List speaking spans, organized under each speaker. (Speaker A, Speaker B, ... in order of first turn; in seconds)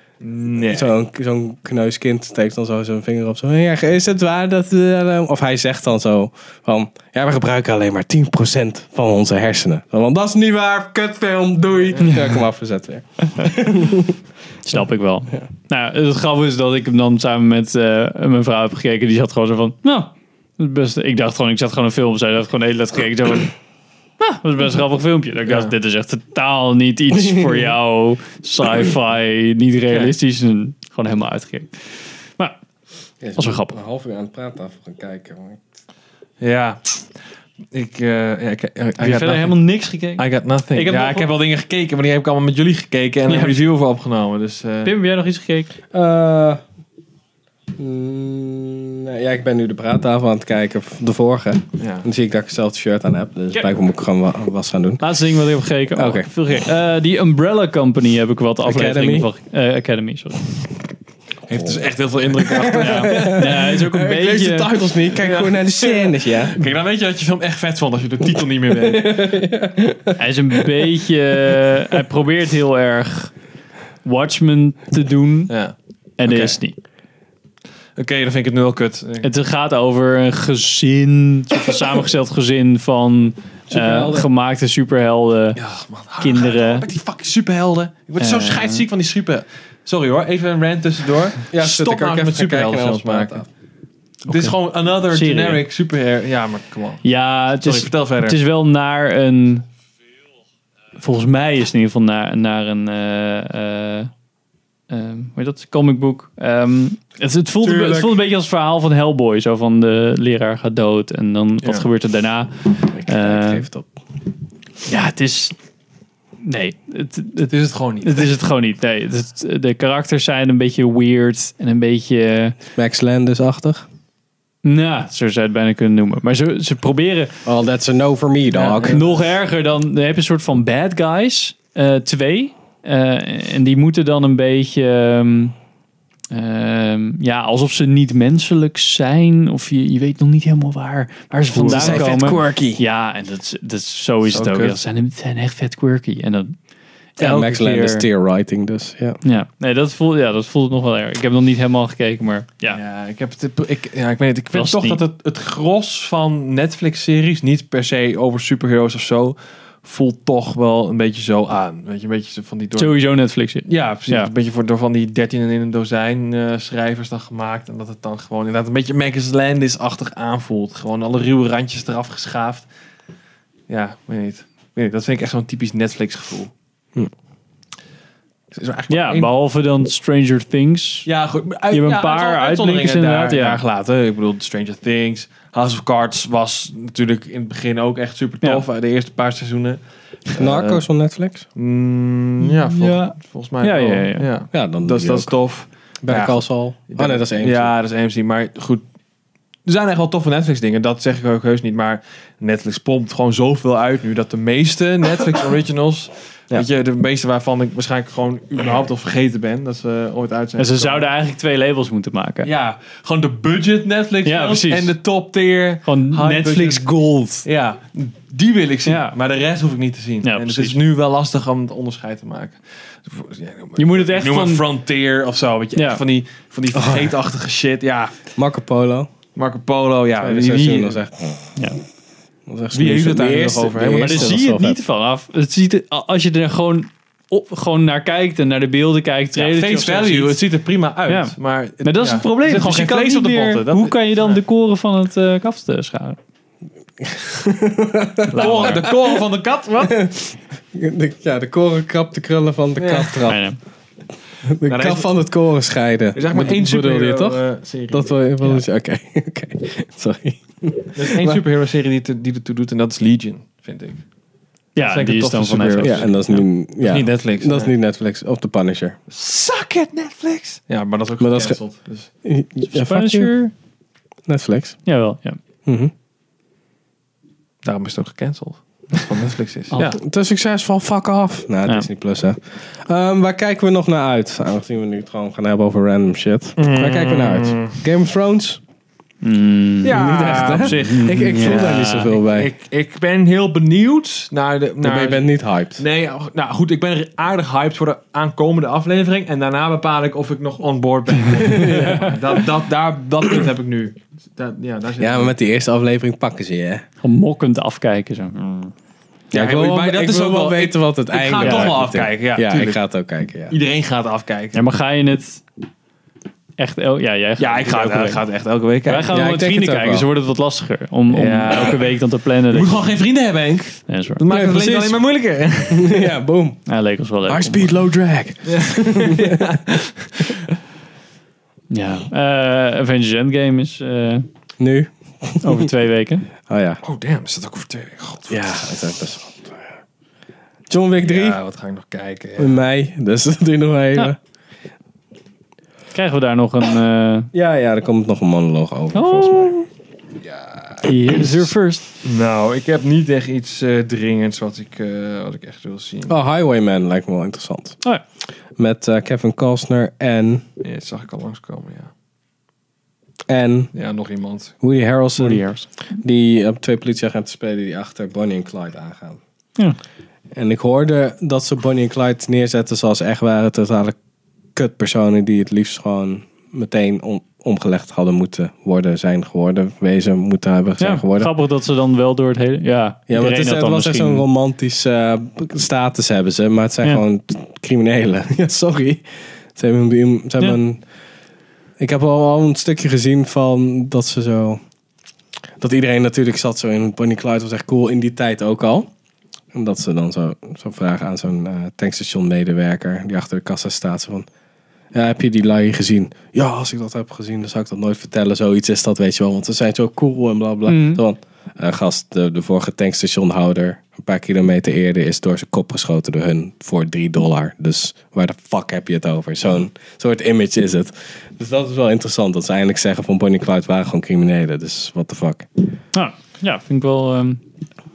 Speaker A: 0.2-0.9, 11.9-12.2, 25.4-25.7, 29.9-30.1, 36.4-37.0, 37.7-39.6, 40.1-44.9, 51.8-52.0, 61.5-63.4, 65.2-69.3, 75.5-76.6, 78.0-79.3, 85.5-93.4, 94.2-97.0, 97.6-98.4, 107.6-108.1, 117.5-118.3, 128.5-129.2, 141.5-142.6, 144.3-144.8, 147.2-148.0, 152.7-162.9, 163.7-172.7, 173.7-176.5, 178.5-179.3, 181.1-190.8, 191.5-198.8, 199.6-211.1, 212.4-216.9, 217.4-228.1, 229.3-231.0, 232.7-234.4, 239.3-244.4, 248.3-249.9, 252.8-253.2, 254.7-255.1, 256.1-258.1, 260.9-264.0, 264.8-266.1, 266.8-267.7, 269.1-272.1, 277.6-280.0, 286.6-287.8, 289.8-305.3, 309.3-312.8, 313.5-314.6, 317.4-319.1, 321.1-322.0, 322.5-326.1, 328.4-330.4, 336.8-338.5, 341.0-342.6, 350.2-350.8, 352.0-356.1, 360.6-361.9, 363.7-364.5
Speaker B: 0.7-14.2, 33.2-35.6, 45.9-46.6, 47.8-55.0, 55.9-56.3, 58.6-59.3, 61.5-61.8, 62.4-66.6, 68.7-70.2, 83.7-84.3, 91.5-93.5, 112.9-113.9, 122.7-123.8, 127.4-129.0, 141.6-142.8, 147.2-149.2, 190.3-191.5, 194.5-195.3, 196.0-197.7, 226.7-227.1, 228.3-229.1, 230.2-231.5, 232.5-234.8, 247.0-248.9, 249.8-253.4, 254.4-261.4, 265.8-269.0, 271.2-271.6, 272.2-273.3, 274.3-274.8, 275.6-275.9, 279.9-288.6, 289.9-292.5, 294.8-295.8, 301.5-302.1, 305.0-306.8, 309.3-313.6, 319.1-320.1, 324.3-325.0, 325.7-326.6, 327.3-329.4, 334.6-335.7, 336.4-336.8, 338.3-339.6, 340.7-341.4, 342.4-344.2, 347.3-349.5, 356.1-357.8, 358.6-360.4, 363.3-363.7, 364.6-365.4, 366.0-369.2, 370.3-373.9, 374.6-381.3, 383.1-389.0, 389.5-390.8, 391.8-394.6, 395.6-398.9, 399.5-404.3, 404.9-425.5
Speaker C: 14.7-23.5, 24.2-32.5, 33.4-33.7, 39.0-41.3, 43.3-43.6, 44.8-45.7, 55.0-60.5, 62.8-64.8, 70.2-73.3, 74.0-75.5, 76.2-76.8, 79.2-85.6, 86.2-86.8, 88.2-88.8, 94.3-94.5, 95.1-95.6, 97.0-99.7, 101.0-104.1, 104.9-113.6, 114.8-115.5, 116.4-122.6, 124.6-127.4, 128.8-135.5, 136.3-146.5, 147.2-148.0, 149.2-152.8, 154.5-155.0, 162.8-164.3, 178.9-181.1, 181.7-183.6, 192.4-194.3, 210.6-212.5, 214.2-214.9, 215.8-217.4, 218.8-219.1, 220.2-220.8, 223.8-224.7, 225.8-226.0, 234.0-240.4, 241.1-246.2, 248.3-248.9, 253.2-253.6, 264.7-266.4, 272.7-273.5, 274.9-275.4, 289.2-292.1, 301.8-302.1, 307.0-308.7, 311.4-311.7, 314.5-315.4, 316.6-318.2, 318.9-322.9, 323.9-324.2, 326.7-327.8, 331.7-334.2, 335.4-336.3, 345.9-347.3, 348.9-349.6, 350.8-351.9, 365.2-365.7, 380.8-384.2, 410.7-411.0, 425.9-427.4